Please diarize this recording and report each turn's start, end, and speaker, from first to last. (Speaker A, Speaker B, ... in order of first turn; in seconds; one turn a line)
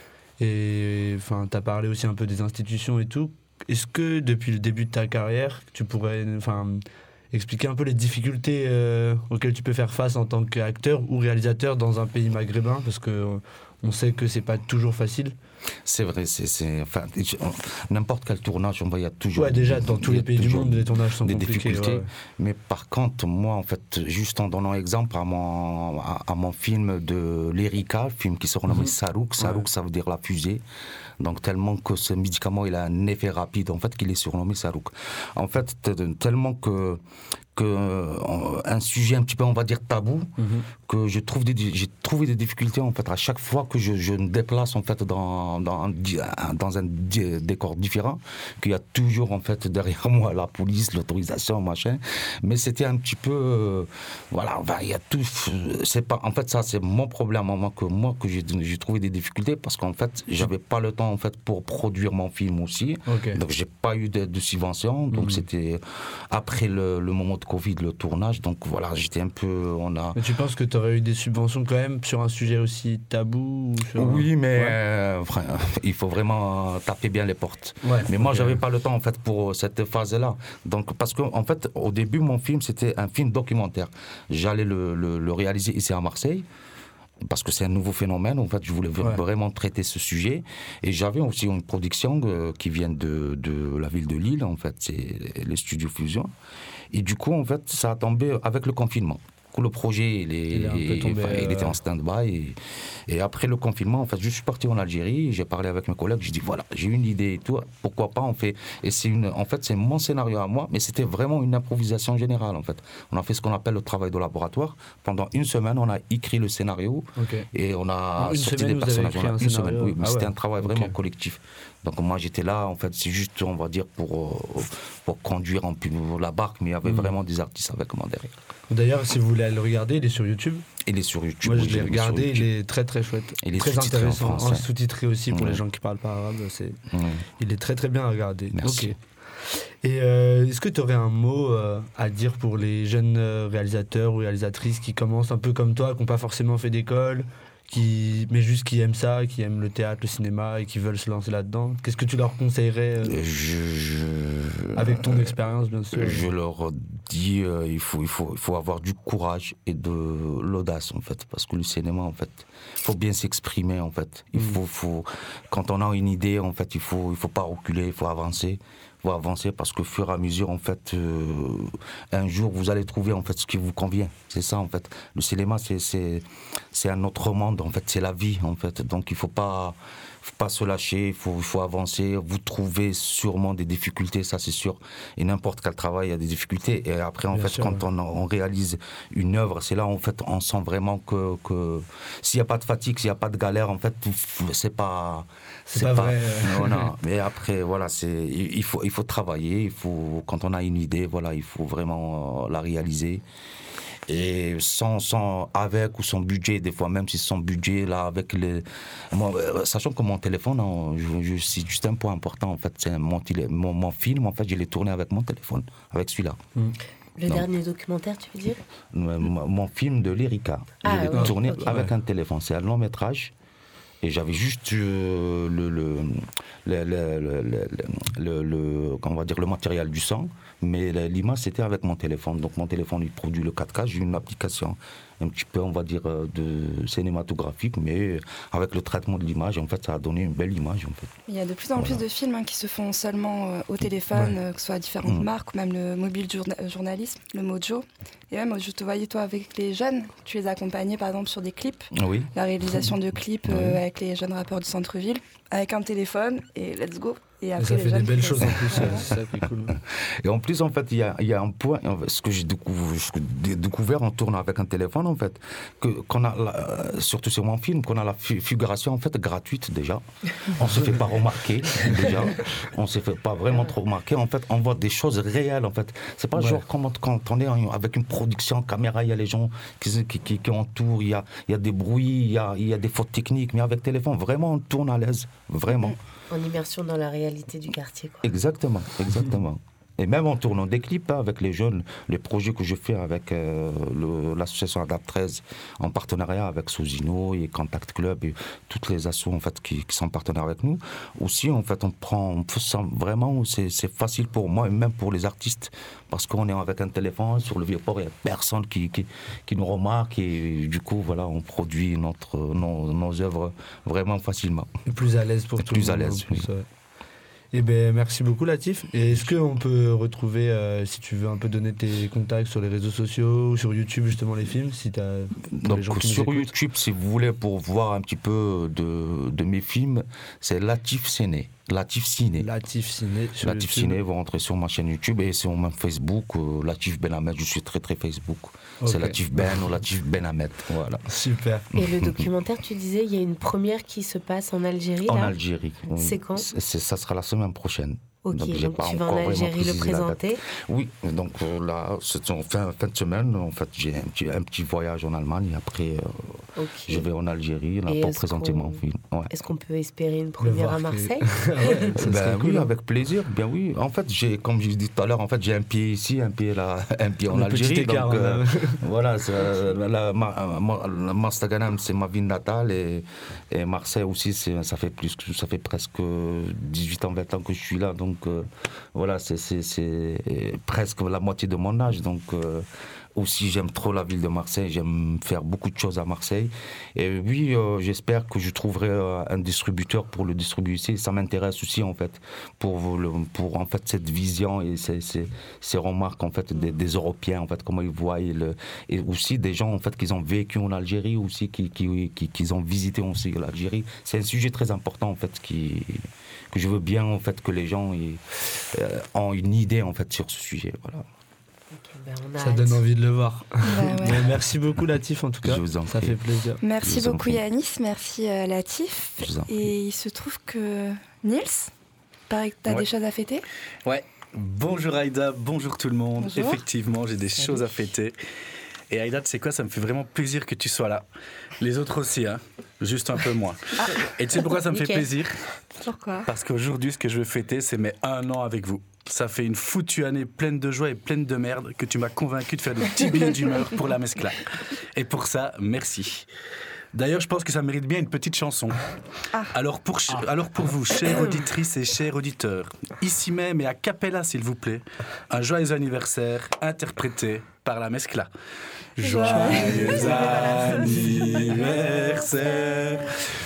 Speaker A: 0.4-15.3
Speaker B: 15.8-30.6
Speaker A: 19.4-22.1
Speaker A: 28.8-29.7
Speaker B: 31.2-37.0
Speaker B: 37.5-70.2
Speaker A: 40.4-40.7
Speaker A: 63.1-63.4
Speaker A: 65.1-65.5
Speaker A: 70.2-74.8
Speaker B: 74.0-86.5
Speaker A: 77.8-78.6
Speaker B: 87.2-96.3
Speaker B: 96.9-102.6
Speaker A: 100.5-101.8
Speaker B: 103.1-128.3
Speaker A: 117.2-117.5
Speaker A: 118.2-120.9
Speaker A: 126.9-127.1
Speaker A: 128.7-130.7
Speaker B: 130.8-132.5
Speaker A: 131.4-136.8
Speaker B: 133.4-134.7
Speaker B: 135.3-135.6
Speaker B: 136.9-137.2
Speaker A: 137.4-139.0
Speaker B: 138.6-138.9
Speaker A: 139.8-153.2
Speaker B: 153.1-155.2
Speaker A: 154.8-156.3
Speaker B: 155.9-203.2
Speaker A: 187.3-187.8
Speaker A: 195.7-196.9
Speaker B: 204.1-216.4
Speaker C: 217.2-218.6
Speaker B: 218.9-223.3
Speaker C: 220.8-221.8
Speaker A: 221.1-221.9
Speaker B: 224.0-241.1
Speaker D: 241.3-259.1
Speaker B: 241.7-242.0
Speaker B: 251.9-252.3
Speaker B: 253.4-253.8
Speaker A: 257.6-259.7
Speaker B: 259.4-286.0
Speaker A: 276.4-276.6
Speaker C: 286.3-288.3
Speaker B: 288.2-314.7
Speaker A: 314.9-316.7
Speaker B: 315.6-316.5
Speaker A: 317.5-326.5
Speaker B: 325.6-332.5
Speaker A: 332.4-334.0
Speaker B: 333.4-341.1
Speaker A: 338.8-339.7
Speaker A: 341.1-341.7
Speaker C: 341.8-345.4
Speaker B: 341.8-342.3
Speaker B: 345.1-359.3
Speaker C: 345.9-346.5
Speaker C: 348.2-350.4
Speaker C: 356.6-357.1
Speaker C: 357.9-362.0
Speaker A: 360.4-362.7
Speaker B: 362.0-411.1
Speaker A: 367.3-368.8
Speaker C: 411.7-412.9
Speaker A: 412.4-416.6
Speaker D: 413.6-414.3
Speaker B: 415.4-416.2
Speaker D: 416.6-421.7
Speaker B: 416.8-417.4
Speaker B: 419.2-419.6
Speaker D: 422.3-423.4
Speaker E: 423.9-428.2
Speaker D: 426.2-426.6
Speaker C: 427.4-427.7
Speaker E: 428.9-431.1
Speaker E: 431.6-435.4
Speaker C: 434.7-435.1
Speaker D: 435.8-436.3
Speaker E: 436.2-444.4
Speaker E: 445.0-446.3
Speaker E: 446.9-448.8
Speaker E: 449.5-458.3
Speaker E: 459.0-463.1
Speaker D: 459.0-461.4